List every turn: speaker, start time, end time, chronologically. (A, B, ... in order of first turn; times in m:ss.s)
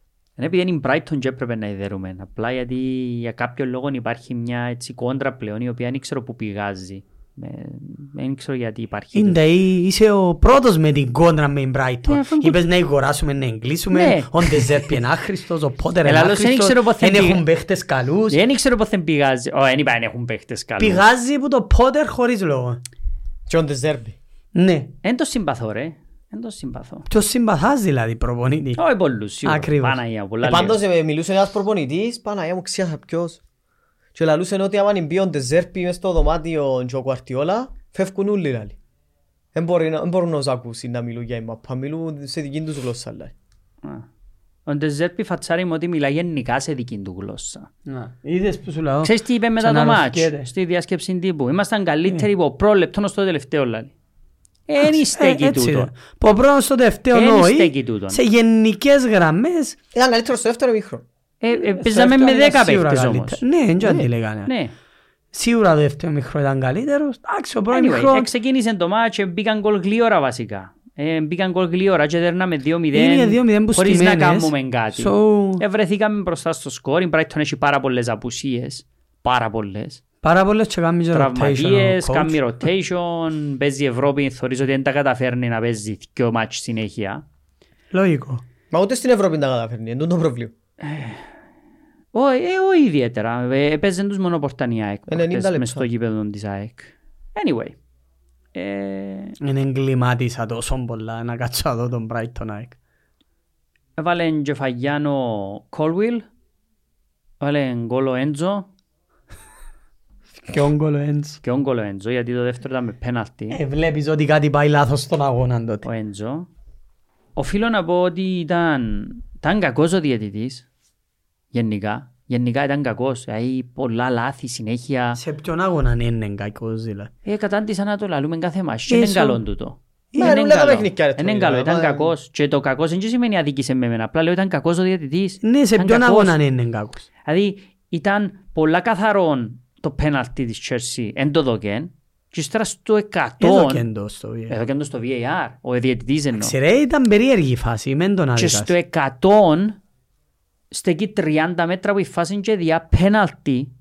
0:00.4-0:09.4 A
0:09.1-0:18.4 B
0:12.1-0:12.6 A
0:13.9-0:15.0 A
0:16.0-0:17.4 A
0:18.3-0:21.0 A
0:20.8-0:22.8 B
0:23.5-0:24.2 C
0:24.5-0:24.9 B
0:25.0-0:27.0 A
0:27.1-0:28.8 B
0:28.8-0:30.8 A
0:29.4-0:30.0 B
0:30.4-0:33.4 C
0:34.1-0:38.8 C
0:39.5-0:43.3 C
0:44.7-0:47.7 A
0:47.9-0:50.5 B
0:49.0-0:53.9 A
0:54.7-0:55.9 A
0:54.8-0:59.8 B
0:57.1-0:58.2 A
0:59.9-1:01.0 C
1:01.4-1:03.4 A
1:01.5-1:04.5 B
1:03.8-1:04.1 C
1:04.4-1:04.7 A
1:05.3-1:08.3 B
1:07.7-1:20.0 A
1:12.9-1:15.6 B
1:20.2-1:22.4 B
1:21.1-1:27.2 A
1:27.9-1:28.4 B
1:28.7-1:30.5 C
1:30.8-1:31.2 A
1:32.1-1:37.8 A
1:35.1-1:35.8 C
1:38.5-1:39.4 A
1:39.4-1:42.8 B
1:44.0-1:46.2 A
1:47.4-1:48.7 A
1:50.4-1:51.4 B
1:51.4-1:53.6 A
1:53.5-1:55.8 B
1:55.8-1:56.5 A
1:57.4-2:00.6 A
2:01.5-2:05.2 A
2:05.1-2:07.1 B
2:07.2-2:16.4 A
2:08.9-2:09.4 B
2:10.2-2:12.1 C
2:15.4-2:17.0 B
2:17.2-2:23.8 A
2:23.4-2:24.6 B
2:24.5-2:26.5 A
2:26.3-2:28.7 B
2:28.4-2:29.8 A
2:30.7-2:33.7 A